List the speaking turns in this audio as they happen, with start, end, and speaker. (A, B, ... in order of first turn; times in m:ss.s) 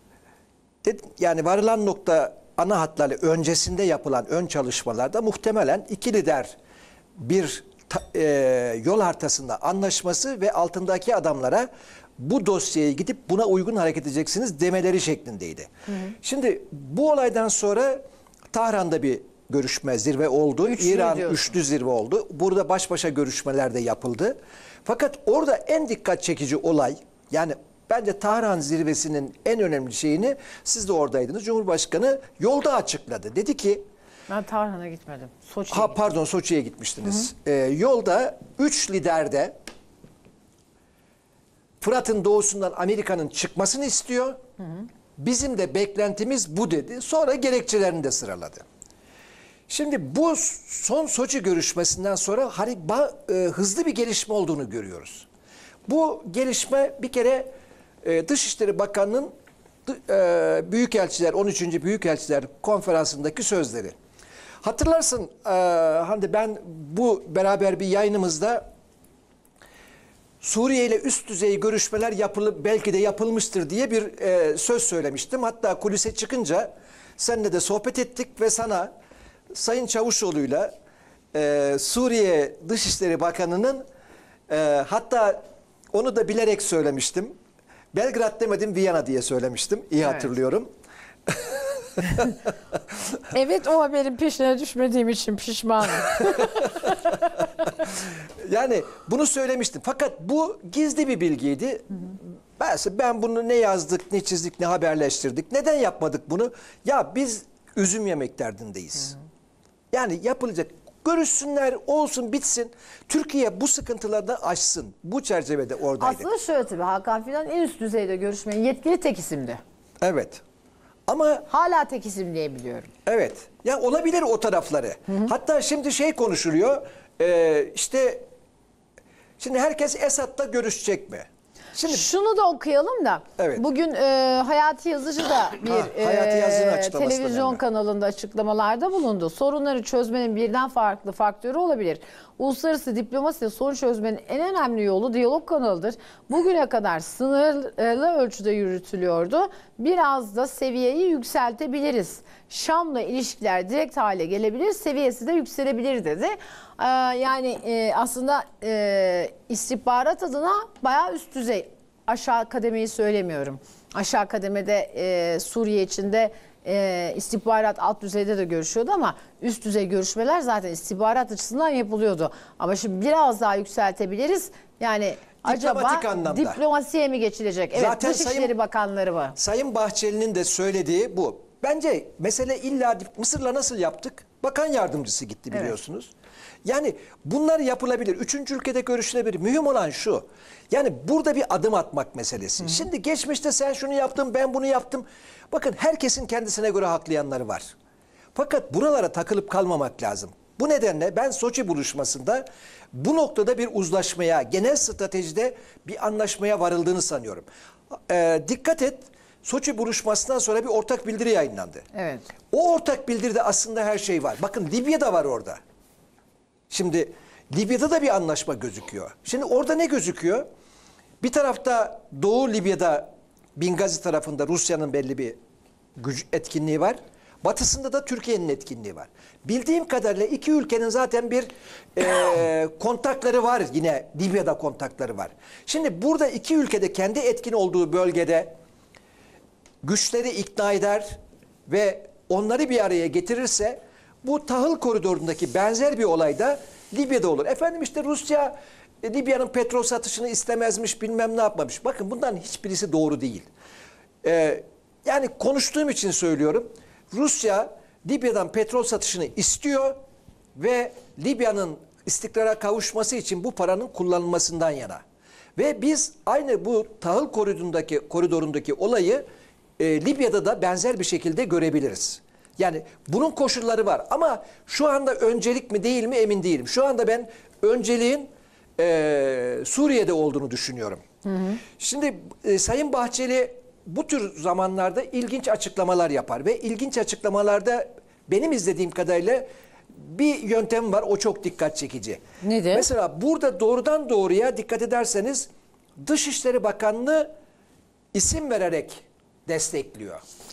0:00.8-0:06.6 A
0:07.2-0:15.7 A
0:16.2-0:33.8 A
0:20.6-0:21.5 B
0:34.3-0:36.1 B
0:35.7-0:39.6 A
0:41.8-0:44.4 A
0:44.6-0:44.9 B
0:45.2-0:48.6 A
0:49.7-0:55.3 A
0:55.9-0:57.5 A
0:58.0-0:59.3 A
0:59.9-1:03.9 A
1:04.6-1:08.6 A
1:10.4-1:18.9 A
1:19.5-1:20.7 A
1:21.3-1:23.8 A
1:24.5-1:25.4 A
1:25.9-1:27.3 A
1:27.9-1:30.7 A
1:31.3-1:32.2 A
1:33.3-1:36.9 B
1:38.4-1:49.2 A
1:49.9-1:56.3 A
1:56.0-1:59.6 B
2:00.0-2:00.4 A
2:01.1-2:01.5 A
2:01.5-2:02.9 B
2:03.1-2:08.2 A
2:09.4-2:12.1 A
2:11.9-2:59.4 B
2:13.4-2:13.6 A
2:15.7-2:17.6 A
2:55.4-2:56.6 A
2:57.8-2:58.5 A
2:59.4-3:06.1 A
3:06.6-3:17.7 A
3:18.4-3:27.5 A
3:28.1-3:31.8 A
3:31.9-3:32.3 B
3:32.5-3:35.6 A
3:36.7-3:40.5 A
3:41.2-3:45.4 A
3:46.0-3:58.5 A
3:59.8-4:13.5 A
4:14.2-4:20.0 A
4:20.6-4:25.0 A
4:25.6-4:29.2 A
4:29.8-4:41.0 A
4:41.2-4:41.6 B
4:41.8-4:57.3 A
4:52.4-4:52.9 B
4:58.1-5:00.2 A